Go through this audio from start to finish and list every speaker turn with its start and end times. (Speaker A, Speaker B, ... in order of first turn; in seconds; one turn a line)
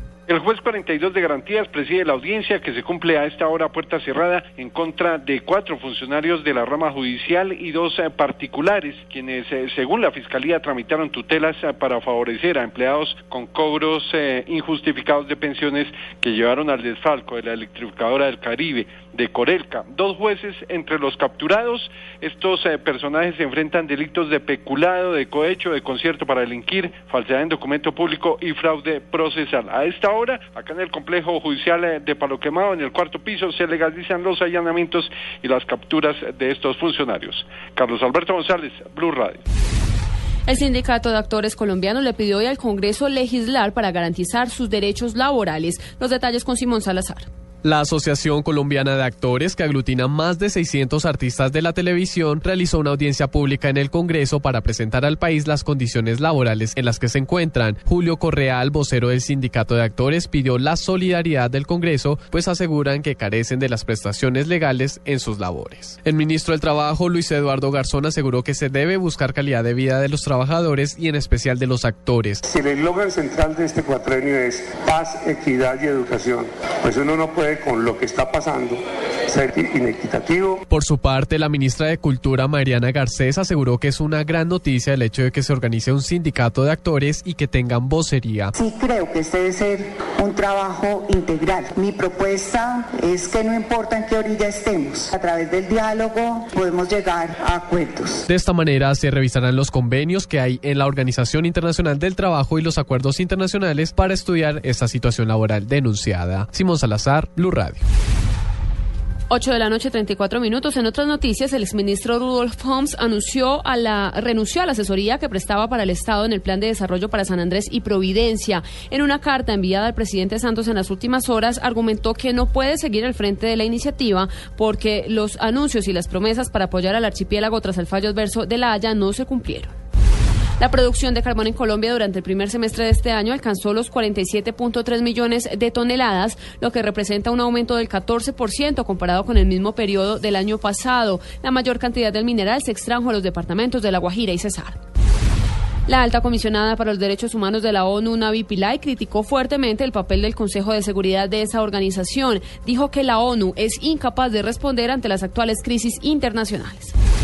Speaker A: 0.3-39.4
Speaker B: 40.5-47.3
Speaker C: 47.6-72.4
Speaker D: 72.5-80.6
Speaker C: 80.7-88.5
Speaker E: 88.6-98.3
Speaker C: 98.3-107.8
Speaker B: 109.3-129.7
Speaker B: 130.6-144.8
Speaker B: 145.9-156.9